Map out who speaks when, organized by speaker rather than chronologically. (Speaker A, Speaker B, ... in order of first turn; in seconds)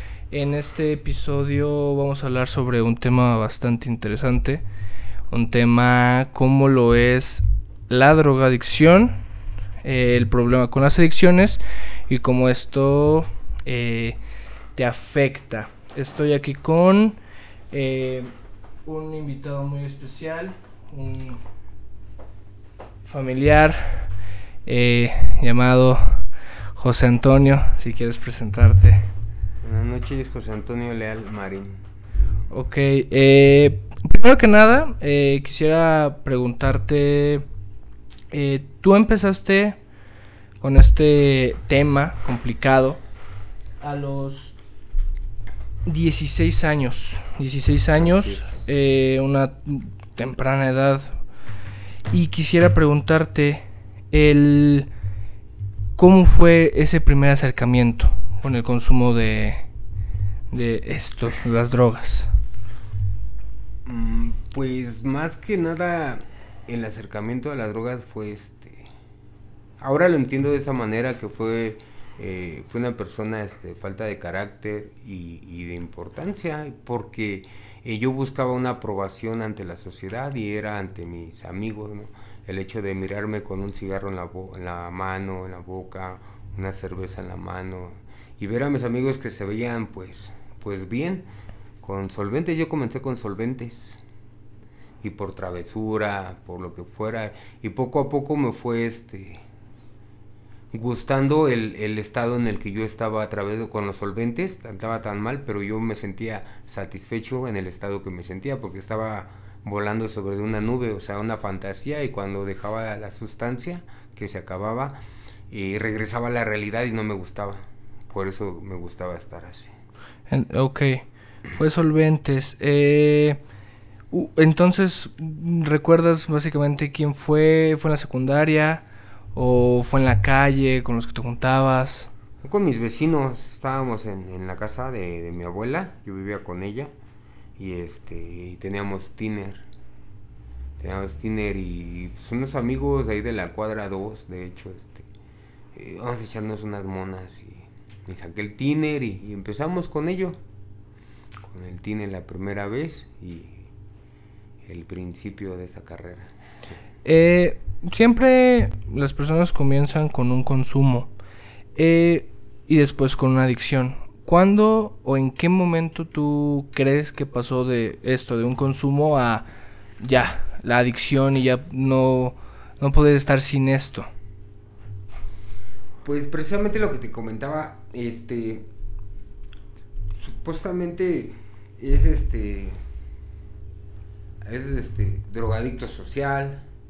Speaker A: 0.3-4.6, 5.3-9.2, 9.8-14.2, 14.8-17.2, 17.7-18.3, 18.8-21.4, 23.0-24.1, 24.6-29.1, 32.5-37.5, 38.3-39.8, 40.6-43.0, 43.8-44.6, 45.8-51.2, 52.1-54.9, 56.0-59.7, 60.5-62.3, 120.3-123.4, 124.1-132.1, 157.0-161.1, 161.7-169.4, 170.0-174.1
Speaker B: 29.6-31.8, 48.2-48.5, 63.9-68.9, 69.8-91.3, 91.8-94.0, 95.0-99.4, 100.7-119.7, 132.4-136.9, 137.6-139.6, 140.8-145.1, 145.7-150.4, 151.4-153.7, 154.6-156.3, 176.0-178.7, 180.1-182.8, 184.4-186.7